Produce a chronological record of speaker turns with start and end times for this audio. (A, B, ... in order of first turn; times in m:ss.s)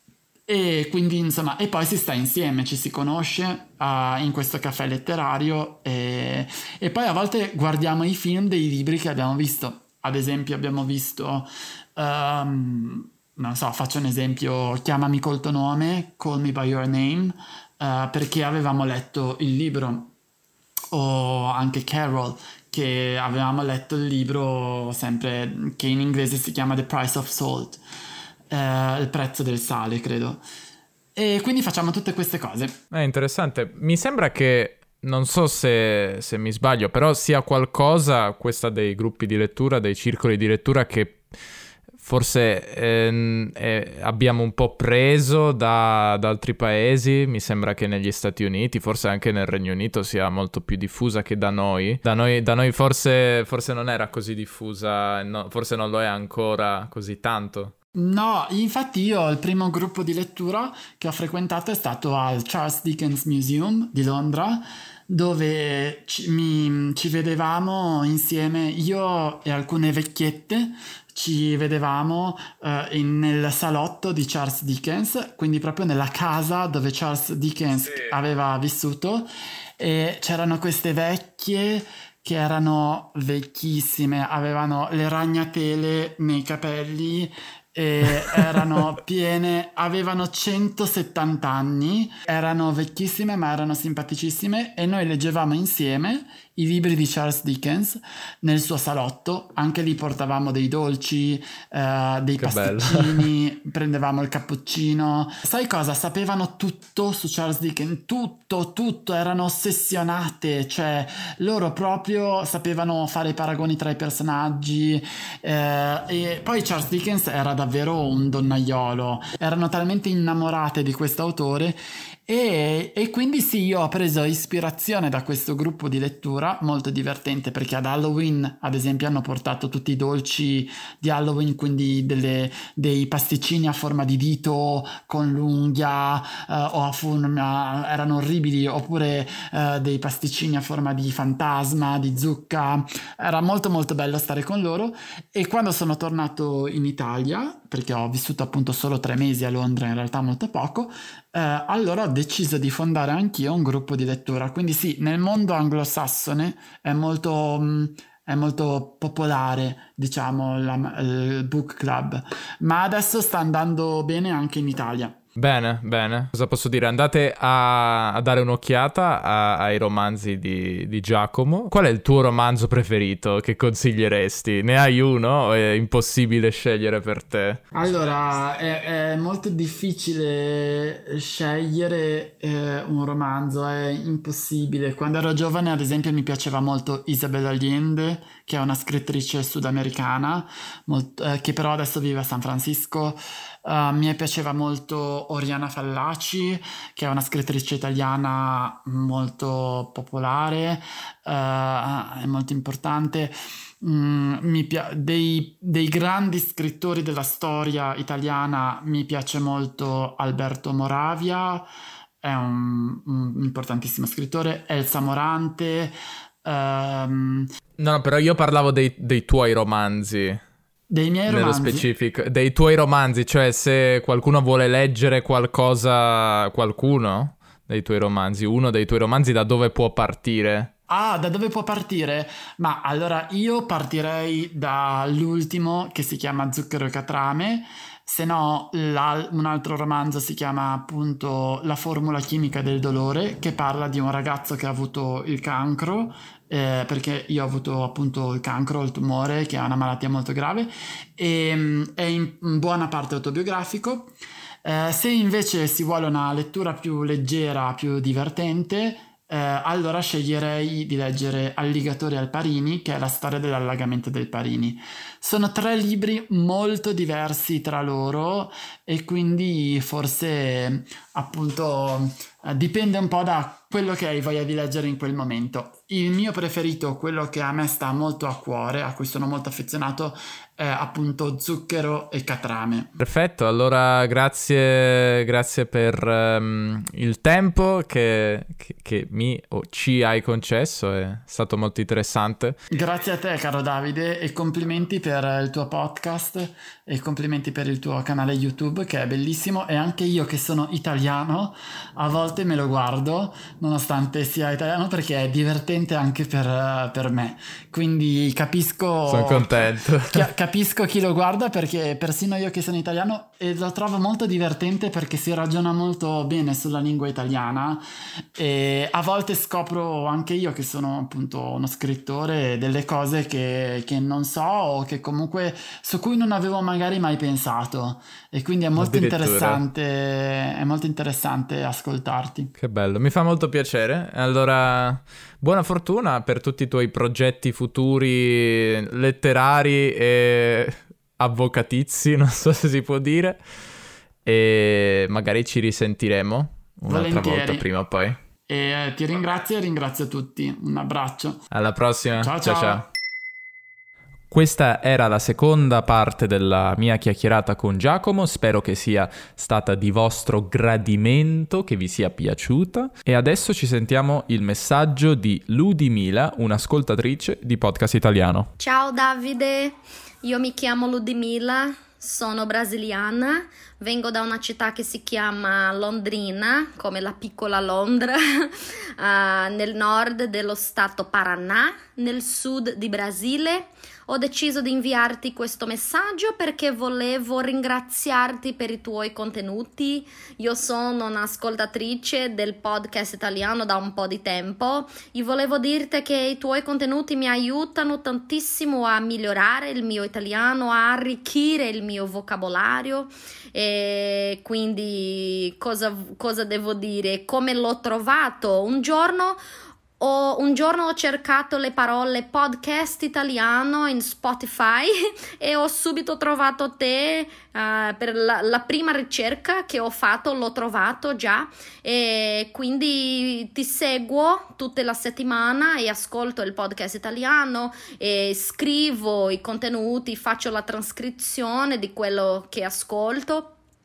0:00.5-0:20.1 A
0:20.9-0:27.8 A
0:28.5-0:30.4 A
0:31.1-0:32.8 A
0:32.9-0:41.2 B
0:42.0-0:57.7 B
0:57.9-2:45.2 A
1:42.4-1:43.3 B
2:45.4-2:57.6 B
2:57.7-3:31.7 A
3:32.2-3:37.5 A
3:37.8-3:40.4 B
3:40.9-3:41.9 A
3:41.3-3:50.7 B
3:50.9-4:42.9 A
4:43.0-4:52.6 B
4:52.7-5:17.8 A
5:09.1-5:10.3 B
5:18.3-5:32.5 A
5:28.8-5:29.6 B
5:32.6-5:43.4 B
5:44.2-5:48.2 B
5:46.9-5:47.7 A
5:48.5-5:51.4 A
5:51.5-5:52.8 B
5:52.2-5:52.8 A
5:54.3-6:08.5 B
6:08.6-6:49.4 C
6:50.0-7:13.5 C